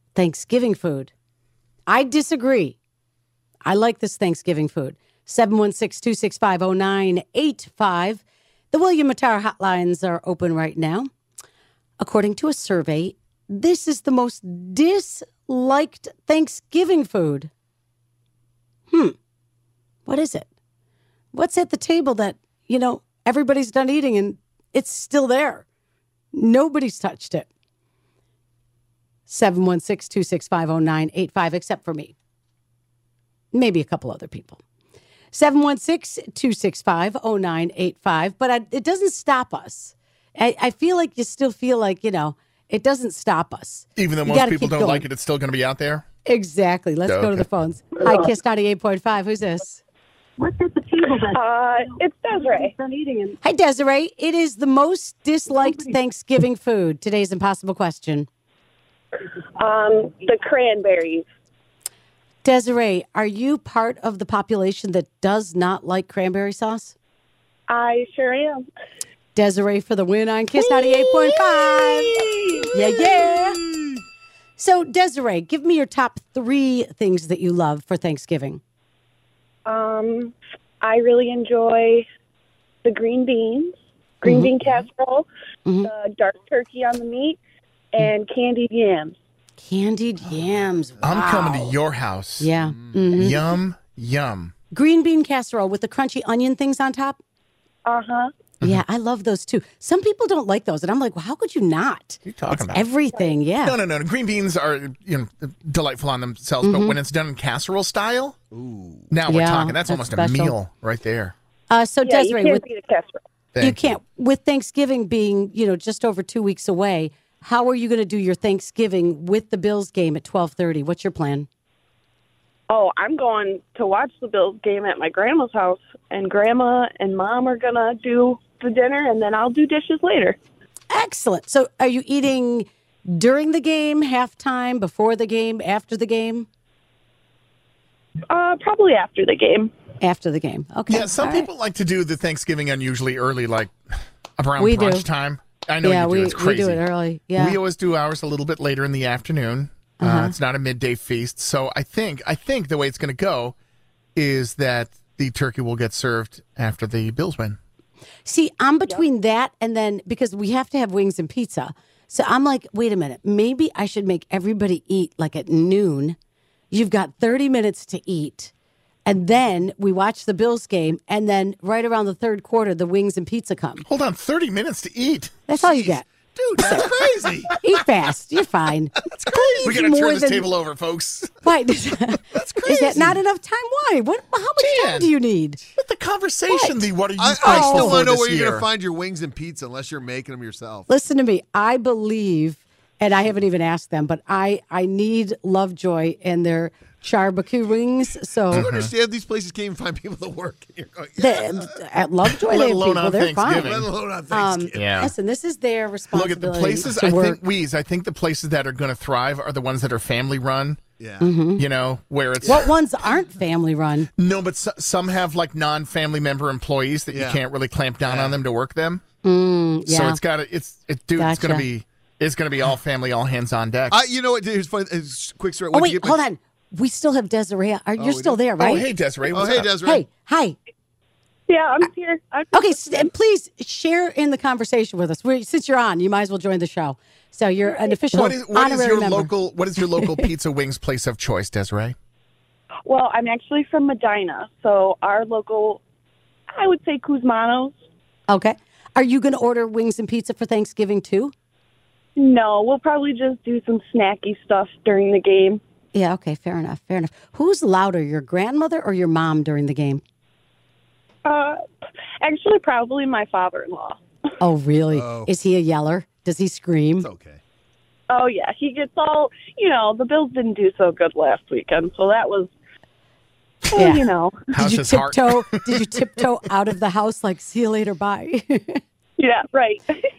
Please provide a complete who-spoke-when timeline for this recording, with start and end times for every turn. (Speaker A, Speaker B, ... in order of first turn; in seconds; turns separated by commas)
Speaker A: 0.1-1.1, Speaker A: 1.9-2.8, Speaker A: 3.6-11.1, Speaker A: 12.0-17.5, Speaker A: 18.9-19.2, Speaker A: 20.1-20.5, Speaker A: 21.3-25.7, Speaker A: 26.3-27.5, Speaker A: 29.3-32.1, Speaker A: 33.5-34.6, Speaker A: 35.3-45.1, Speaker B: 44.0-46.0, Speaker A: 46.2-49.8, Speaker B: 47.1-47.5, Speaker C: 50.4-51.4, Speaker D: 51.1-52.7, Speaker C: 52.4-53.4, Speaker A: 53.4-58.3, Speaker D: 59.3-61.2, Speaker A: 62.4-67.0, Speaker D: 67.7-68.6, Speaker A: 69.3-73.6, Speaker D: 72.4-72.7, Speaker A: 74.6-78.6, Speaker D: 79.7-82.1, Speaker D: 82.8-85.3, Speaker A: 84.3-84.5, Speaker A: 85.7-85.9, Speaker D: 85.8-87.4, Speaker D: 87.9-89.2, Speaker A: 89.6-91.8, Speaker B: 91.0-92.5, Speaker A: 92.4-93.4, Speaker E: 92.6-93.0, Speaker B: 93.1-94.5, Speaker A: 94.7-97.2, Speaker D: 97.9-98.3, Speaker A: 98.6-103.8, Speaker B: 102.3-102.9, Speaker B: 103.6-108.4, Speaker A: 106.6-107.0, Speaker E: 108.5-109.1, Speaker B: 109.1-111.3, Speaker A: 109.3-110.5, Speaker A: 111.7-112.6, Speaker D: 112.0-113.2, Speaker B: 113.5-114.0, Speaker A: 113.6-121.5, Speaker D: 122.7-130.4, Speaker A: 130.9-136.5, Speaker D: 138.3-139.7, Speaker A: 140.0-141.5, Speaker B: 140.9-143.7, Speaker B: 144.4-146.8, Speaker A: 144.6-145.1, Speaker A: 145.8-147.6, Speaker B: 147.4-153.6, Speaker A: 150.0-150.3, Speaker B: 154.2-157.6, Speaker A: 158.2-166.2, Speaker A: 166.7-168.5, Speaker A: 169.1-173.8, Speaker B: 173.9-175.5, Speaker A: 175.5-176.9, Speaker E: 175.6-177.6, Speaker B: 176.7-177.6, Speaker A: 177.6-180.5, Speaker E: 179.2-179.4, Speaker B: 179.2-181.5, Speaker A: 181.4-185.6, Speaker B: 182.3-183.2, Speaker B: 184.6-185.1, Speaker B: 185.8-188.7, Speaker A: 186.5-186.8, Speaker E: 187.2-190.9, Speaker A: 187.4-188.1, Speaker A: 190.9-198.7, Speaker E: 198.5-201.8, Speaker B: 198.5-198.9, Speaker A: 201.2-207.4, Speaker B: 202.4-203.9, Speaker E: 203.5-205.1, Speaker B: 204.8-205.1, Speaker B: 206.1-210.8, Speaker E: 211.0-211.3, Speaker A: 211.2-211.6, Speaker B: 211.5-212.7, Speaker A: 212.5-214.1, Speaker B: 214.2-219.0, Speaker E: 217.1-217.4, Speaker E: 218.1-218.4, Speaker A: 219.2-220.2, Speaker B: 219.9-224.0, Speaker A: 221.2-221.7, Speaker E: 223.9-226.2, Speaker A: 225.7-228.9, Speaker E: 228.0-230.1, Speaker B: 228.6-229.7, Speaker A: 229.8-230.6, Speaker D: 231.5-233.1, Speaker A: 232.5-240.3, Speaker B: 238.1-242.0, Speaker D: 242.9-245.8, Speaker D: 246.5-247.8, Speaker A: 248.3-251.3, Speaker D: 252.2-255.6, Speaker A: 255.9-260.0, Speaker D: 261.2-261.6, Speaker D: 262.2-264.0, Speaker A: 264.4-267.1, Speaker E: 264.9-265.3, Speaker E: 267.0-267.4, Speaker D: 268.1-272.5, Speaker D: 273.7-274.4, Speaker A: 273.8-278.8, Speaker B: 274.5-275.8, Speaker D: 279.2-279.9